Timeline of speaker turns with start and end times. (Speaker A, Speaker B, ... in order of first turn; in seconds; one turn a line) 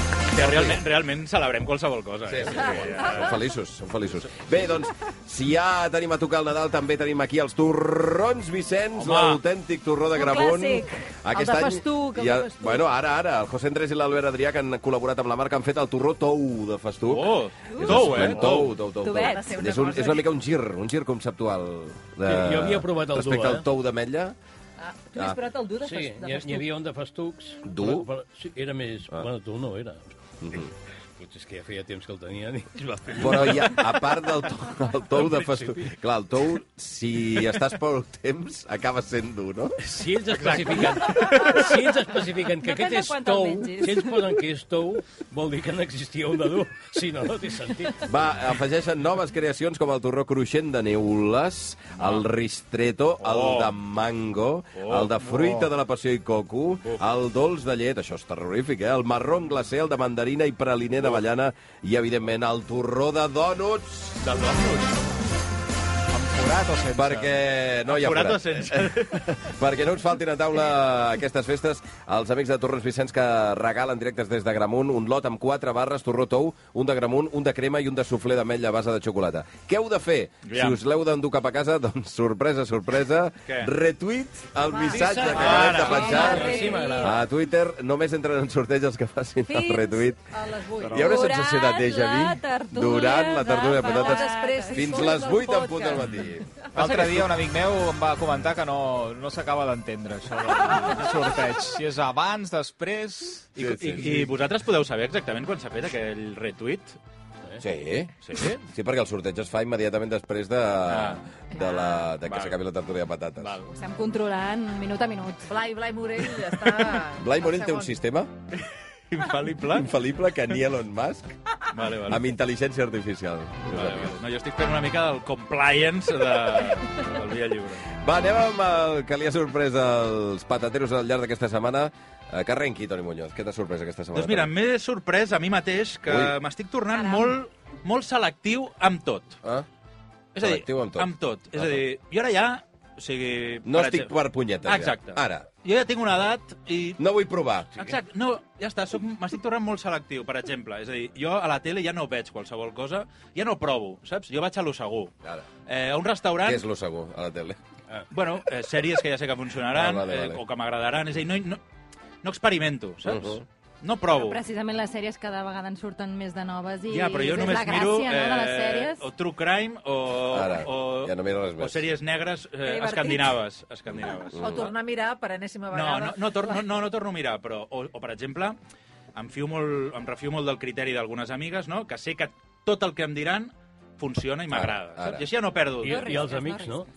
Speaker A: 0.3-3.4
Speaker B: 0.3-0.8
Speaker B: 2.3-24.4
Speaker C: 2.8-3.3
Speaker A: 8.9-9.4
Speaker C: 10.1-11.0
Speaker D: 11.3-12.8
Speaker A: 17.1-18.8
Speaker C: 17.7-19.6
Speaker D: 19.2-20.3
Speaker E: 22.2-23.6
Speaker D: 24.8-26.7
Speaker E: 25.8-30.1
Speaker B: 27.6-28.1
Speaker B: 30.4-30.7
Speaker E: 31.2-34.0
Speaker B: 33.1-39.9
Speaker E: 35.1-35.9
Speaker E: 39.8-48.0
Speaker A: 40.6-41.6
Speaker C: 41.2-41.7
Speaker C: 42.5-44.4
Speaker B: 48.0-64.2
Speaker A: 52.0-52.2
Speaker A: 53.2-53.7
Speaker A: 54.7-55.7
Speaker A: 64.2-65.1
Speaker F: 66.1-67.3
Speaker B: 66.9-90.2
Speaker A: 67.9-69.3
Speaker A: 80.4-80.8
Speaker D: 84.6-87.0
Speaker E: 84.8-87.2
Speaker A: 85.2-86.3
Speaker C: 85.9-87.0
Speaker C: 89.5-90.0
Speaker D: 90.3-91.2
Speaker B: 90.8-97.3
Speaker C: 90.9-95.1
Speaker D: 93.8-96.7
Speaker F: 96.7-103.5
Speaker B: 103.6-104.3
Speaker A: 103.6-107.0
Speaker B: 107.6-113.6
Speaker A: 108.2-108.6
Speaker A: 110.8-111.2
Speaker D: 111.5-112.0
Speaker A: 112.2-112.6
Speaker A: 113.4-113.7
Speaker C: 113.7-115.5
Speaker D: 115.5-117.9
Speaker B: 117.2-118.3
Speaker A: 119.1-119.9
Speaker B: 119.7-121.3
Speaker A: 121.7-122.3
Speaker B: 122.0-124.2
Speaker A: 123.7-127.9
Speaker B: 128.0-134.5
Speaker A: 134.1-139.4
Speaker B: 136.1-136.4
Speaker C: 136.9-137.3
Speaker A: 140.3-144.1
Speaker B: 140.4-141.8
Speaker B: 143.6-145.5
Speaker A: 144.6-147.0
Speaker B: 147.0-147.7
Speaker A: 147.7-155.1
Speaker A: 155.7-156.6
Speaker B: 156.4-157.6
Speaker A: 158.1-161.6
Speaker B: 159.7-160.4
Speaker A: 162.2-164.4
Speaker B: 163.0-163.4
Speaker C: 164.1-169.1
Speaker A: 166.9-174.7
Speaker B: 170.3-171.9
Speaker C: 172.6-173.4
Speaker B: 173.9-174.7
Speaker D: 174.4-176.6
Speaker A: 175.7-178.6
Speaker A: 179.1-186.3
Speaker B: 184.5-185.3
Speaker E: 185.8-186.9
Speaker C: 185.8-186.8